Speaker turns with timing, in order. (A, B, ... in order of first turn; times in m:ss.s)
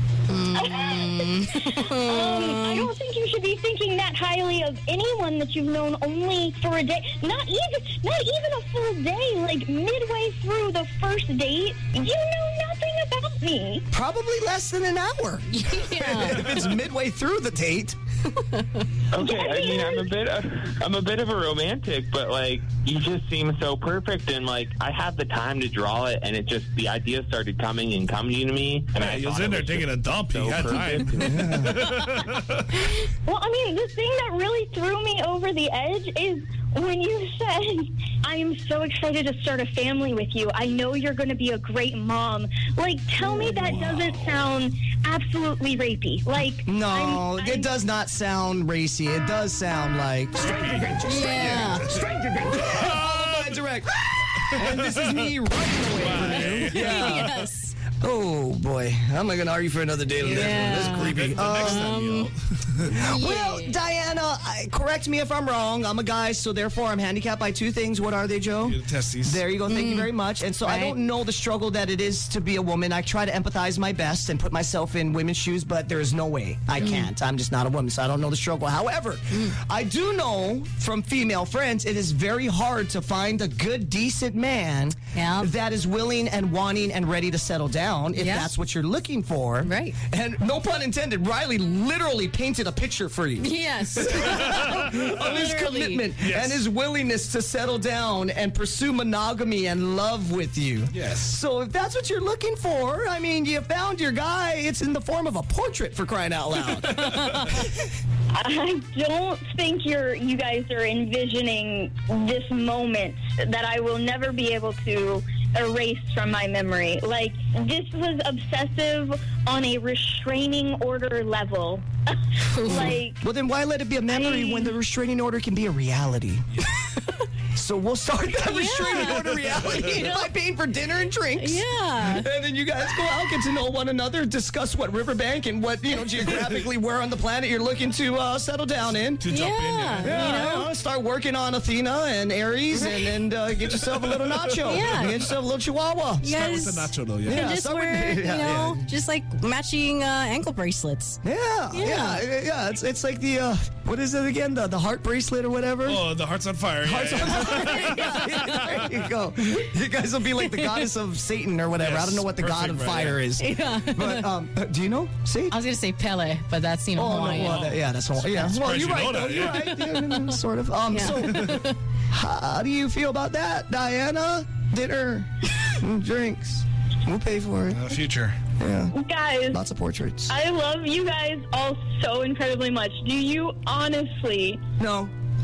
0:00.3-0:02.9 A
0:00.6-0:13.8 B
0:13.9-0:18.0 C
0:15.5-0:16.6 A
0:19.1-0:31.7 D
0:19.2-0:20.1 B
0:29.0-0:32.6 E
0:31.2-0:31.9 C
0:33.2-0:47.7 B
0:43.6-0:44.4 E
0:46.7-0:57.3 C
0:50.4-0:53.6 E
0:51.0-0:52.0 A
0:54.5-0:55.3 E
0:56.0-0:57.4 E
0:56.2-0:57.8 A
0:58.0-1:01.9 C
1:00.2-1:02.9 E
1:00.2-1:02.3 A
1:02.8-1:03.8 A
1:03.0-1:47.3 C
1:08.6-1:09.6 E
1:09.7-1:11.0 A
1:16.8-1:17.1 A
1:25.1-1:25.5 A
1:28.2-1:28.5 A
1:29.6-1:30.0 A
1:33.4-1:36.1 A
1:34.2-1:35.1 E
1:36.2-1:36.6 E
1:40.9-1:41.4 E
1:47.0-1:47.5 A
1:48.3-2:03.2 B
2:02.5-2:03.0 A
2:02.7-2:06.5 C
2:04.1-2:04.7 B
2:07.5-2:19.2 C
2:08.3-2:10.3 A
2:11.4-2:12.3 A
2:18.9-2:20.5 E
2:19.3-2:20.7 A
2:20.0-2:26.3 C
2:22.8-2:23.2 A
2:23.7-2:25.3 E
2:24.7-2:25.2 A
2:26.2-2:32.2 A
2:26.3-2:27.5 E
2:27.2-2:28.9 C
2:31.2-2:36.0 C
2:35.8-2:38.9 E
2:36.8-2:45.6 C
2:40.6-2:40.8 A
2:41.8-2:43.3 E
2:43.4-2:44.3 A
2:45.5-2:48.6 A
2:47.0-2:57.8 C
2:47.3-2:47.8 E
2:48.6-2:49.8 E
2:49.7-2:50.4 A
2:50.9-2:51.8 A
2:57.7-2:58.4 E
2:58.6-2:59.0 C
2:58.9-2:59.6 B
2:59.5-3:00.3 C
3:00.3-3:04.6 B
3:04.8-3:05.1 C